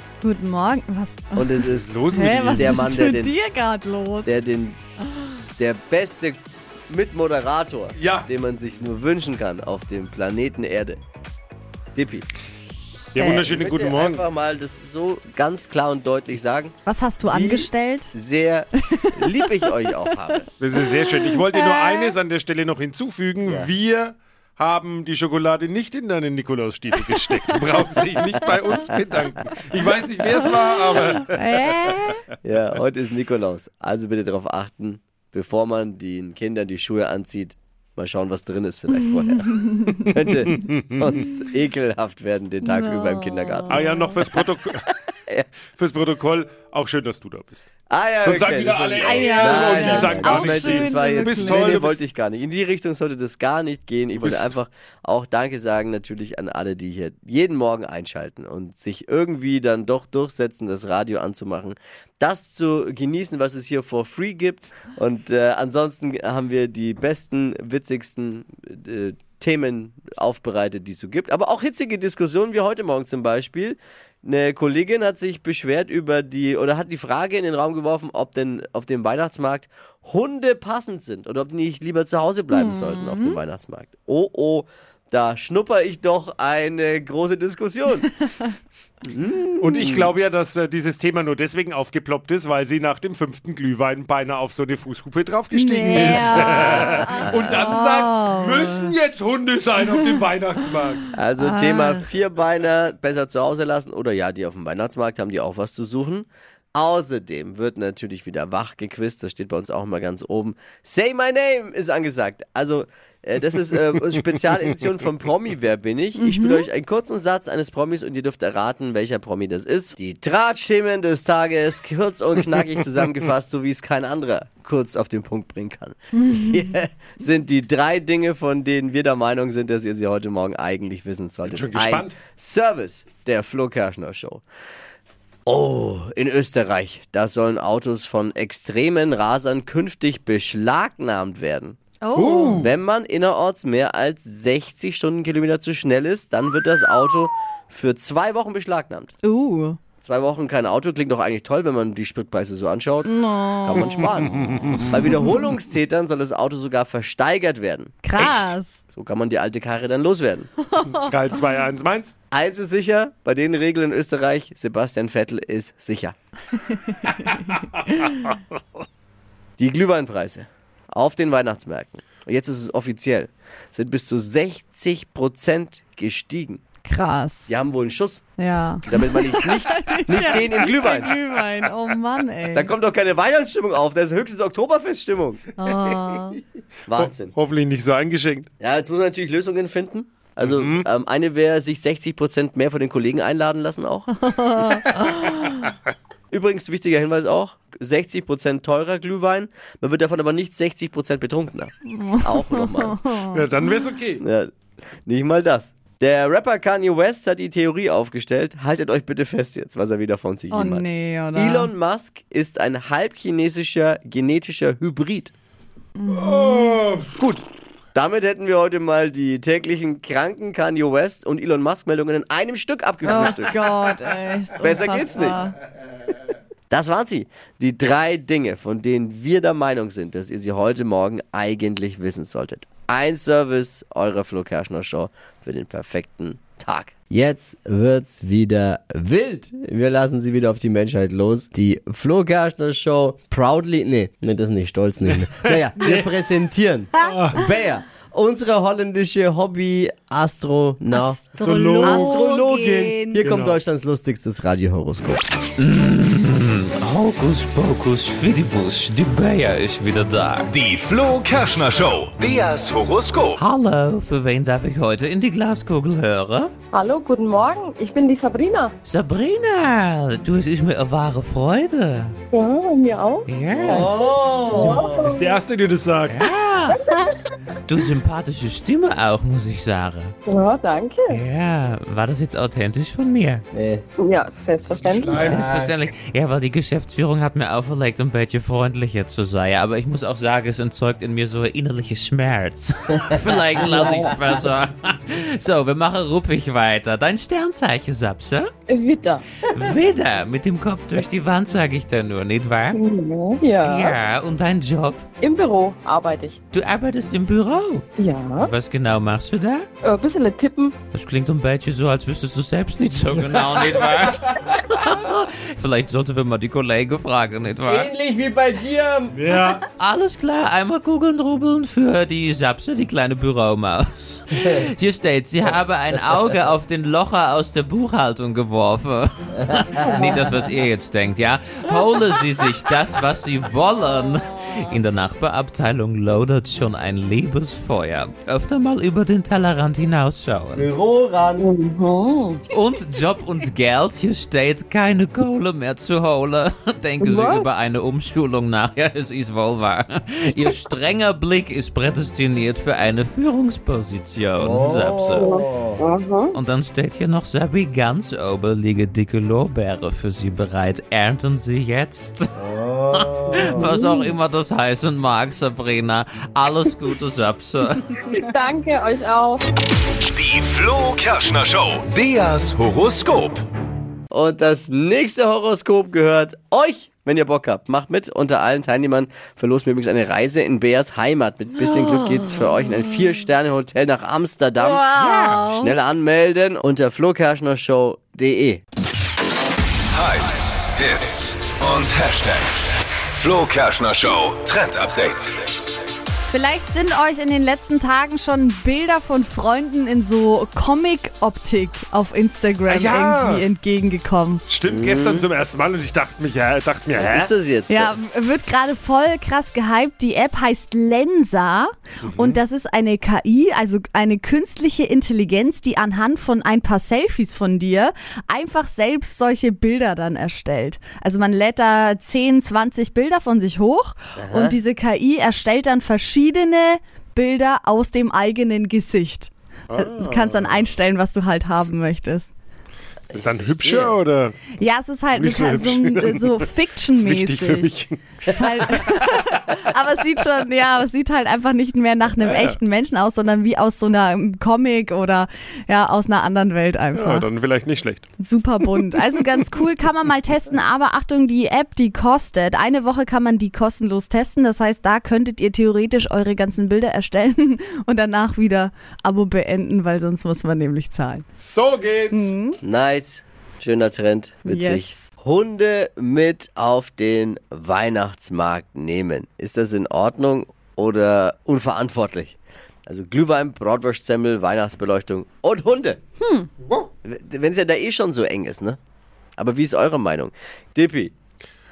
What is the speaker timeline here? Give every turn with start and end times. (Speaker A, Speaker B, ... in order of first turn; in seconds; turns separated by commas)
Speaker A: 0.2-4.3, Speaker B: 1.4-3.4, Speaker C: 1.8-2.9, Speaker B: 4.2-4.8, Speaker B: 5.6-11.0, Speaker C: 8.0-8.3, Speaker B: 11.9-12.3, Speaker C: 13.1-14.3, Speaker B: 13.2-20.5, Speaker A: 16.9-18.1, Speaker A: 18.8-19.7, Speaker C: 20.6-32.1, Speaker A: 20.9-22.1, Speaker B: 23.4-23.7, Speaker B: 28.3-28.8, Speaker A: 31.0-32.2, Speaker B: 32.4-44.4, Speaker A: 39.5-40.0, Speaker C: 40.4-41.1, Speaker A: 42.6-44.2, Speaker C: 43.7-44.9, Speaker C: 45.7-47.7, Speaker B: 47.9-88.1, Speaker C: 48.2-52.0, Speaker A: 49.0-51.8, Speaker C: 54.1-54.5, Speaker A: 82.5-83.4, Speaker B: 89.0-90.1, Speaker C: 89.6-101.1, Speaker A: 95.5-98.9, Speaker B: 96.0-97.1, Speaker A: 99.9-100.1, Speaker B: 101.1-134.4, Speaker A: 101.4-102.1, Speaker A: 116.2-116.7, Speaker A: 126.2-126.6, Speaker C: 131.4-132.2, Speaker B: 135.5-141.8, Speaker A: 142.0-142.7, Speaker C: 142.2-142.7, Speaker B: 142.6-149.1, Speaker A: 149.2-149.8, Speaker B: 150.0-153.1, Speaker A: 153.1-155.2, Speaker B: 153.6-160.5, Speaker C: 154.5-154.8, Speaker A: 158.0-158.8, Speaker A: 160.6-161.0, Speaker C: 160.8-162.2, Speaker B: 162.3-166.2, Speaker A: 166.6-168.2, Speaker C: 167.1-168.1, Speaker B: 169.6-176.6, Speaker A: 176.8-177.6, Speaker B: 177.5-178.2, Speaker A: 178.4-182.7, Speaker B: 178.8-181.1, Speaker B: 182.5-185.4, Speaker A: 185.6-186.4, Speaker B: 186.9-187.3, Speaker C: 186.9-188.5, Speaker B: 188.6-194.1, Speaker C: 190.4-190.9, Speaker A: 194.1-195.7, Speaker B: 196.3-203.0, Speaker A: 201.9-203.7, Speaker C: 203.2-204.2, Speaker B: 204.2-204.5, Speaker B: 205.1-215.3, Speaker A: 210.5-211.7, Speaker A: 216.0-216.9, Speaker C: 216.1-217.1, Speaker B: 217.2-223.6, Speaker A: 223.0-225.6, Speaker B: 224.6-225.4, Speaker B: 226.7-255.2, Speaker C: 245.0-246.3, Speaker C: 247.0-247.5, Speaker A: 250.9-253.2, Speaker C: 251.4-252.2, Speaker C: 253.2-253.6, Speaker D: 255.6-260.5, Speaker E: 260.5-263.4, Speaker D: 263.4-266.5, Speaker F: 266.7-268.7, Speaker D: 268.8-272.1, Speaker F: 272.3-273.9, Speaker D: 273.3-274.0, Speaker B: 273.6-275.3, Speaker D: 274.5-274.8, Speaker C: 274.6-276.2, Speaker F: 274.7-275.1, Speaker D: 276.1-276.8, Speaker D: 277.7-280.1, Speaker F: 280.3-281.2, Speaker D: 281.1-283.4, Speaker B: 283.5-283.8, Speaker F: 284.0-285.3, Speaker C: 284.8-285.5, Speaker D: 285.1-298.5, Speaker B: 285.3-285.7, Speaker B: 293.6-294.2, Speaker F: 298.7-299.2, Speaker D: 299.5-302.8, Speaker F: 302.8-303.9, Speaker D: 303.6-305.1, Speaker F: 305.2-306.4, Speaker D: 306.5-307.9, Speaker F: 308.0-308.5, Speaker D: 308.4-309.7, Speaker F: 309.8-310.8, Speaker D: 310.9-317.9, Speaker B: 313.6-314.2, Speaker B: 317.7-319.3, Speaker C: 319.1-319.6, Speaker D: 319.8-340.7, Speaker B: 340.5-341.5, Speaker F: 341.4-342.4, Speaker D: 342.5-355.4, Speaker F: 347.1-347.4, Speaker B: 354.4-355.8, Speaker F: 355.2-356.3, Speaker D: 356.3-362.3, Speaker B: 362.4-363.8, Speaker D: 362.9-367.8, Speaker F: 368.1-369.4, Speaker E: 370.0-373.4, Speaker B: 374.1-388.6, Speaker A: 381.6-382.3, Speaker A: 384.6-385.7, Speaker E: 389.9-395.4, Speaker A: 396.3-404.4, Speaker C: 402.7-403.5, Speaker C: 404.5-407.3, Speaker B: 404.6-405.3, Speaker B: 406.9-407.9, Speaker A: 407.7-432.3, Speaker C: 412.0-412.4, Speaker B: 424.2-424.6, Speaker C: 429.7-430.6, Speaker C: 433.1-434.4, Speaker B: 433.1-434.0, Speaker A: 434.6-447.3, Speaker C: 435.1-438.0, Speaker C: 442.2-442.6, Speaker C: 446.9-448.1, Speaker A: 448.2-461.2, Speaker C: 461.4-462.4, Speaker A: 462.1-462.6, Speaker B: 462.6-476.0, Speaker A: 464.5-464.9, Speaker A: 476.2-476.5, Speaker B: 477.0-478.8, Speaker B: 479.4-481.1